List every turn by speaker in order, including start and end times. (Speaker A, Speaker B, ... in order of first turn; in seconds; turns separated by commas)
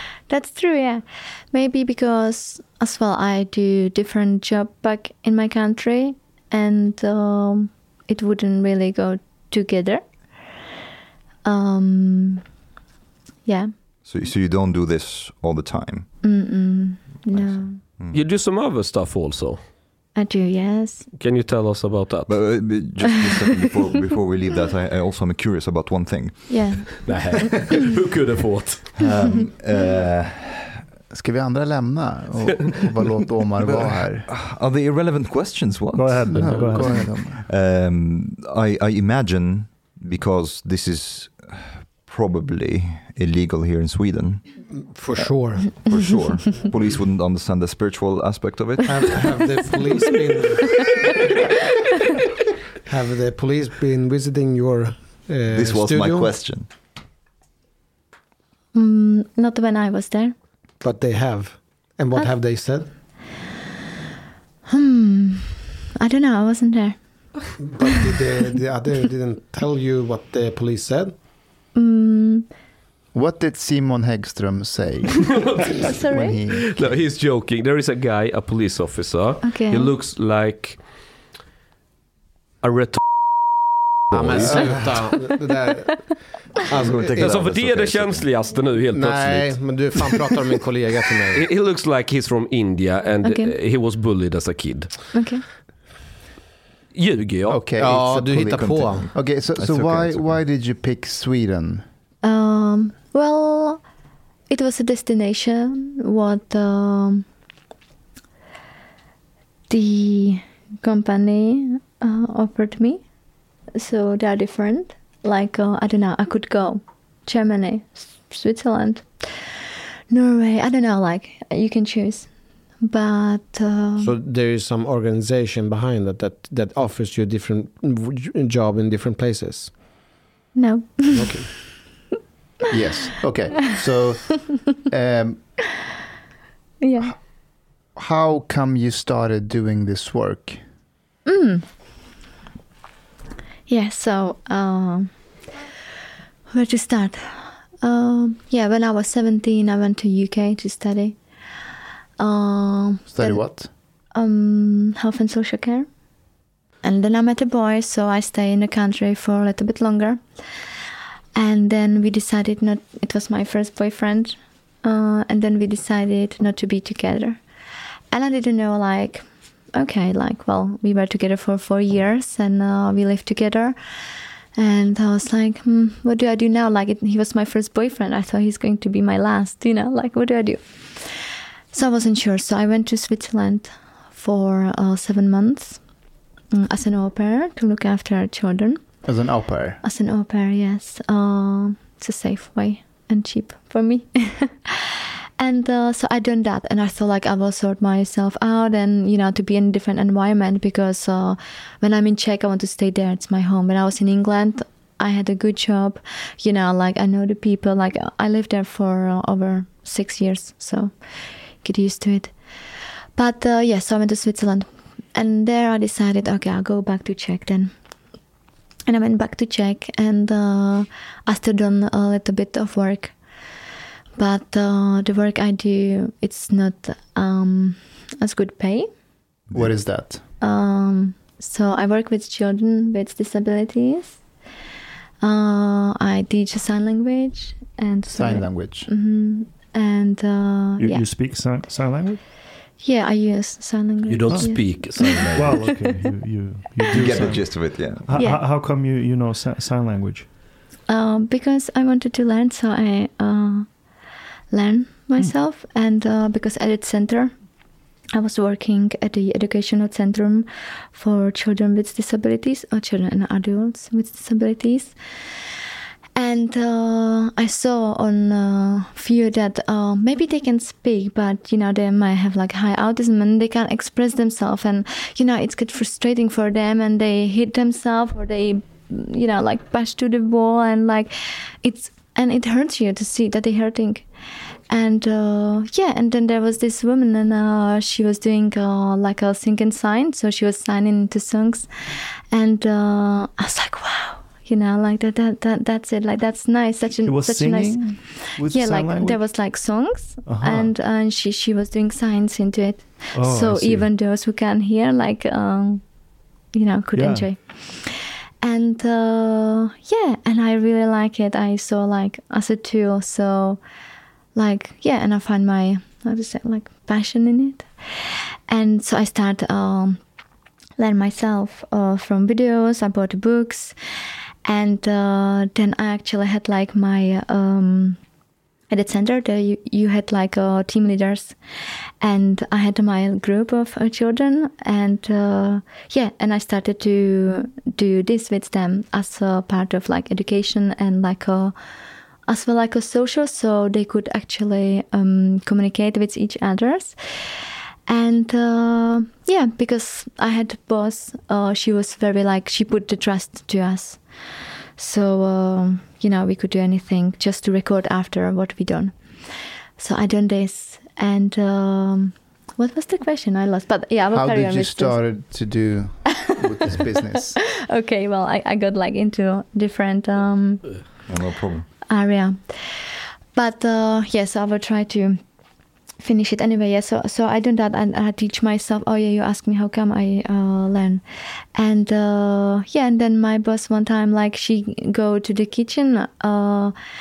Speaker A: 0.3-10.0, Speaker A: 11.4-12.4, Speaker A: 13.4-13.7, Speaker B: 14.0-16.2, Speaker A: 16.2-17.8, Speaker B: 17.3-18.2, Speaker C: 18.1-19.6, Speaker A: 20.1-21.1, Speaker C: 21.2-22.8, Speaker B: 22.2-27.1, Speaker A: 26.5-27.0, Speaker C: 27.1-29.1, Speaker B: 29.0-30.8, Speaker D: 31.1-34.3, Speaker B: 33.6-49.8, Speaker E: 35.9-37.2, Speaker D: 36.3-37.4, Speaker F: 44.7-46.1, Speaker F: 48.8-50.9, Speaker F: 52.8-56.5, Speaker B: 55.5-56.7, Speaker A: 58.7-60.3, Speaker F: 60.8-62.9, Speaker A: 64.7-67.6, Speaker F: 67.6-71.2, Speaker A: 71.7-72.5, Speaker D: 73.1-76.7, Speaker C: 75.5-75.8, Speaker A: 75.8-76.4, Speaker C: 76.5-81.2, Speaker A: 79.4-79.9, Speaker C: 82.6-83.0, Speaker F: 84.1-87.4, Speaker B: 84.1-85.0, Speaker C: 84.4-84.8, Speaker B: 86.7-88.4, Speaker C: 87.0-90.2, Speaker F: 88.9-91.5, Speaker C: 91.3-95.1, Speaker A: 93.2-93.5, Speaker A: 95.1-95.4, Speaker C: 96.9-97.6, Speaker D: 97.5-101.8, Speaker F: 97.8-99.1, Speaker B: 98.5-100.4, Speaker A: 102.2-103.8, Speaker A: 104.5-107.3, Speaker A: 109.7-113.0, Speaker A: 113.7-119.5, Speaker A: 120.1-124.1, Speaker F: 124.0-129.7, Speaker A: 130.5-131.4, Speaker F: 131.1-131.6, Speaker D: 132.7-135.5, Speaker A: 136.8-137.1, Speaker D: 137.9-140.6, Speaker A: 141.2-141.7, Speaker A: 143.7-145.1, Speaker A: 146.5-151.2, Speaker A: 152.2-155.9, Speaker D: 153.1-153.7, Speaker A: 156.8-160.2, Speaker A: 161.3-167.4, Speaker A: 168.1-173.8, Speaker A: 174.6-185.8, Speaker A: 186.5-188.8, Speaker D: 189.0-189.8, Speaker A: 189.8-210.9, Speaker A: 211.6-212.6, Speaker A: 213.2-217.7, Speaker A: 218.9-223.2, Speaker A: 224.2-228.9, Speaker D: 229.5-230.2, Speaker A: 230.4-234.2, Speaker A: 235.2-241.6, Speaker D: 238.1-238.9, Speaker E: 240.8-242.2, Speaker A: 242.8-245.2, Speaker C: 244.1-245.7, Speaker E: 244.3-250.3, Speaker B: 245.2-245.8, Speaker B: 246.9-248.2, Speaker A: 247.1-247.4, Speaker A: 248.1-248.4, Speaker A: 250.9-253.7, Speaker A: 254.5-257.3, Speaker A: 258.1-264.9, Speaker A: 266.1-281.1, Speaker A: 281.6-284.1, Speaker A: 284.7-305.8, Speaker E: 297.0-299.4, Speaker E: 300.2-300.7, Speaker E: 303.1-303.9, Speaker A: 306.5-313.6, Speaker E: 306.9-307.3, Speaker A: 314.3-320.0, Speaker A: 320.8-323.7, Speaker A: 324.4-328.0, Speaker A: 328.7-331.4, Speaker A: 332.0-341.5, Speaker A: 342.3-347.3, Speaker A: 347.9-365.0, Speaker D: 364.1-367.4, Speaker A: 367.7-371.1, Speaker B: 371.1-371.7, Speaker A: 371.9-375.2, Speaker A: 376.0-381.0, Speaker A: 381.5-386.7